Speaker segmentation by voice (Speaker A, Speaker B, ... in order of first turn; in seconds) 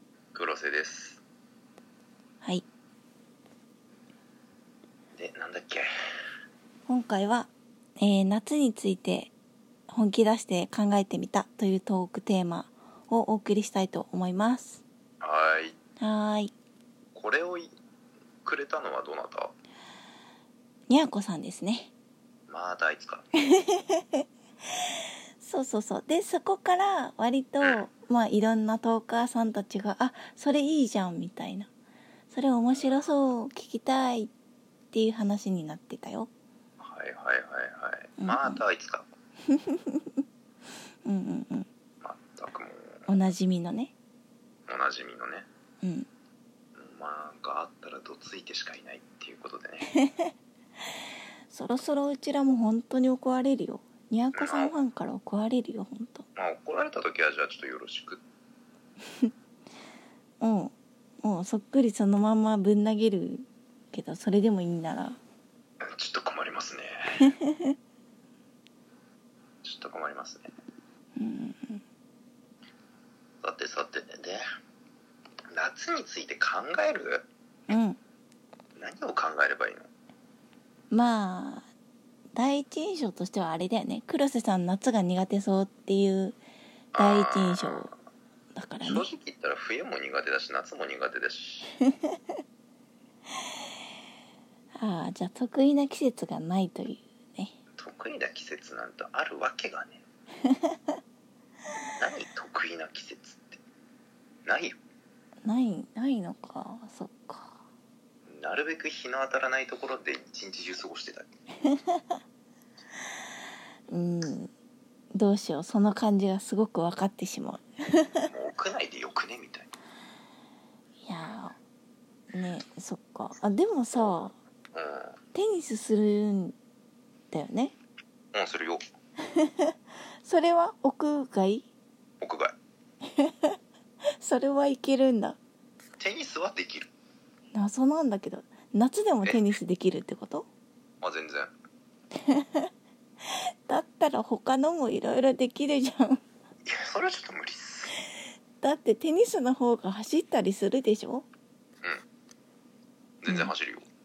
Speaker A: 0.3-1.2, 5.1-5.8, 15.2-15.8, 17.1-17.7, 18.4-19.5, 22.5-23.2, 32.7-33.0, 36.8-39.0, 42.0-43.1, 44.7-45.5, 46.7-49.9, 54.3-54.8, 56.3-58.2, 65.8-67.2, 69.6-70.5, 73.4-74.4, 75.5-77.2, 78.8-79.9, 86.9-87.9, 88.8-91.8, 97.8-100.0, 102.0-103.6, 104.5-104.8, 108.3-111.3, 118.2-119.7, 124.7-125.2, 128.3-128.8, 132.2-132.6, 136.0-136.9, 141.0-141.5, 146.6-148.0, 153.2-153.8
Speaker B: 6.9-9.3, 9.9-14.8, 16.0-16.5, 20.9-21.9, 23.5-24.2, 25.4-31.7, 32.3-34.3, 34.9-36.3, 38.2-38.6, 39.5-40.2, 41.0-41.7, 43.1-43.9, 45.8-46.1, 49.9-50.3, 51.5-56.3, 60.4-65.2, 67.4-67.7, 71.2-71.8, 77.7-78.0, 80.9-81.7, 82.3-86.4, 87.0-87.9, 88.5-89.1, 94.8-97.6, 100.4-100.9, 105.4-107.6, 111.6-112.2, 113.9-114.5, 115.1-118.2, 121.0-121.6, 122.3-124.3, 125.3-126.5, 127.3-127.7, 129.2-131.7, 133.1-133.6, 134.1-135.4, 137.5-140.5, 142.2-142.7, 143.3-146.2, 148.6-151.2, 153.3-153.5